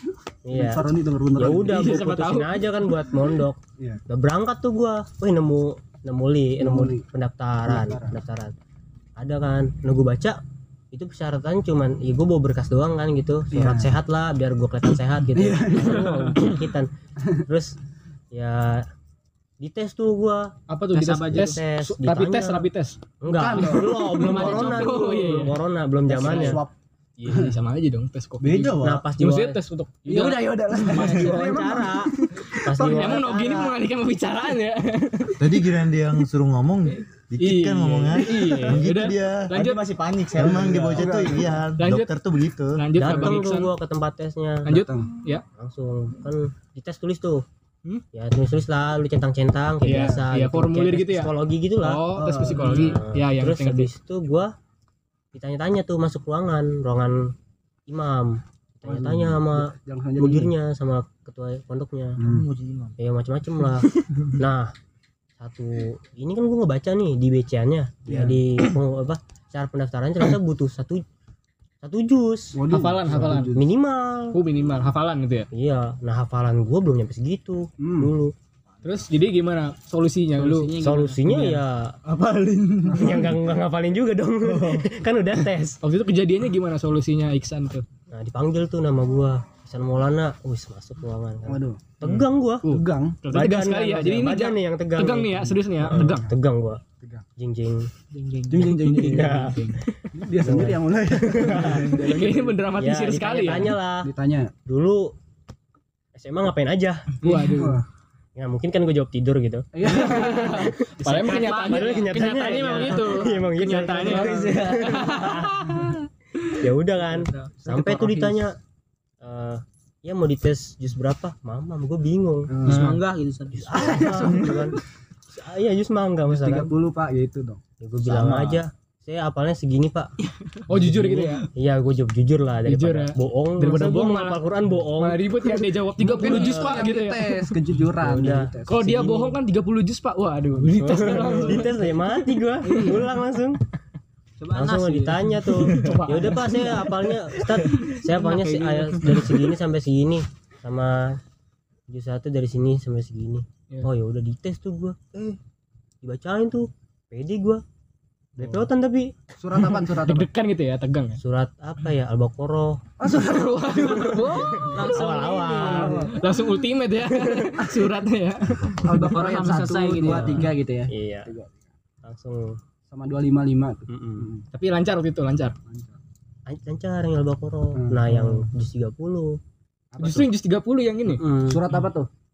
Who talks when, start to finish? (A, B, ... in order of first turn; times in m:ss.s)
0:00.5-0:08.5 A
0:00.5-0:01.9 B
0:01.6-0:02.7 C
0:06.6-0:07.0 B
0:07.7-0:08.2 B
0:09.2-0:10.4 A
0:10.9-0:16.9 A
0:13.5-0:13.9 B
0:15.3-0:16.4 B
0:15.8-0:16.4 C
0:17.5-0:17.8 A
0:18.3-0:18.9 A
0:19.6-0:20.6 A
0:20.7-0:23.0 C
0:20.9-0:21.6 D
0:21.3-0:22.7 A
0:23.2-0:26.6 A
0:23.3-0:24.6 B
0:24.2-0:25.6 C
0:24.2-0:25.1 D
0:26.2-0:26.7 B
0:26.2-0:26.5 E
0:26.2-0:26.6 C
0:27.2-0:31.7 C
0:27.3-0:27.5 B
0:28.4-0:29.1 E
0:28.8-0:29.6 A
0:30.1-0:33.5 B
0:31.0-0:32.1 A
0:32.4-0:35.5 C
0:32.6-0:33.8 A
0:35.4-0:39.6 F
0:37.4-0:39.8 C
0:39.5-0:41.5 E
0:40.4-0:42.8 F
0:41.0-0:41.6 B
0:41.8-0:42.1 C
0:42.8-0:43.7 C
0:43.0-0:44.8 A
0:44.6-0:45.4 C
0:44.7-0:45.1 B
0:45.6-0:47.4 A
0:48.1-0:54.5 A
0:49.8-0:53.9 C
0:52.2-0:52.9 B
0:55.3-0:57.3 A
0:57.9-1:02.2 A
0:58.9-1:00.5 B
1:02.2-1:02.5 B
1:02.2-1:03.0 E
1:03.0-1:04.7 A
1:05.4-1:11.0 A
1:08.1-1:08.4 B
1:11.8-1:14.4 A
1:12.6-1:13.7 B
1:12.7-1:13.6 C
1:14.3-1:15.5 C
1:15.5-1:18.3 A
1:17.8-1:18.1 B
1:18.8-1:20.8 C
1:20.4-1:21.5 D
1:20.8-1:22.0 A
1:22.0-1:23.4 E
1:23.0-1:25.8 A
1:24.4-1:24.9 E
1:25.8-1:27.9 C
1:28.1-1:32.7 A
1:31.5-1:32.0 B
1:32.0-1:36.3 C
1:32.7-1:33.3 B
1:33.3-1:36.8 A
1:36.0-1:36.3 B
1:37.0-1:37.3 B
1:37.4-1:37.9 A
1:38.1-1:39.0 D
1:38.5-1:42.7 B
1:38.6-1:42.0 A
1:38.8-1:39.7 C
1:41.4-1:43.8 C
1:42.7-1:44.1 A
1:44.0-1:44.5 B
1:44.7-1:45.2 A
1:46.2-1:47.6 A
1:47.2-1:47.8 C
1:47.5-1:47.8 B
1:48.4-1:55.8 A
1:49.7-1:50.6 B
1:49.8-1:55.9 C
1:51.0-1:53.0 D
1:54.0-1:55.3 E
1:56.6-1:58.6 A
1:57.2-1:57.5 D
1:57.6-1:58.4 B
1:59.2-2:02.7 A
2:02.5-2:02.9 B
2:02.6-2:04.0 D
2:02.7-2:03.0 C
2:03.5-2:06.7 A
2:03.7-2:04.7 B
2:06.3-2:07.6 B
2:07.8-2:10.1 A
2:08.0-2:08.6 E
2:10.7-2:11.5 C
2:10.7-2:15.4 A
2:12.7-2:14.4 C
2:15.0-2:17.6 C
2:16.0-2:19.2 B
2:16.2-2:16.8 A
2:18.0-2:19.3 A
2:18.7-2:21.8 C
2:20.6-2:23.6 A
2:24.4-2:25.5 D
2:24.5-2:31.2 A
2:25.7-2:26.9 C
2:27.8-2:29.2 C
2:31.9-2:35.4 A
2:36.0-2:37.6 A
2:38.4-2:39.3 A
2:39.4-2:40.3 B
2:39.9-2:41.2 C
2:41.2-2:42.9 A
2:43.0-2:44.2 B
2:43.1-2:45.0 C
2:44.4-2:46.2 A
2:44.6-2:46.1 D
2:45.6-2:46.2 B
2:45.6-2:48.8 C
2:48.5-2:48.9 F
2:48.8-2:51.6 B
2:49.0-2:50.5 D
2:50.0-2:51.3 A
2:52.0-2:52.6 A
2:52.9-2:54.4 B
2:53.9-2:54.3 A
2:54.5-2:55.6 C
2:55.7-2:56.0 B
2:56.5-2:59.4 A
2:57.8-2:58.4 B
2:59.9-3:00.3 B
3:00.0-3:01.2 C
3:01.2-3:01.7 A
3:01.5-3:02.1 B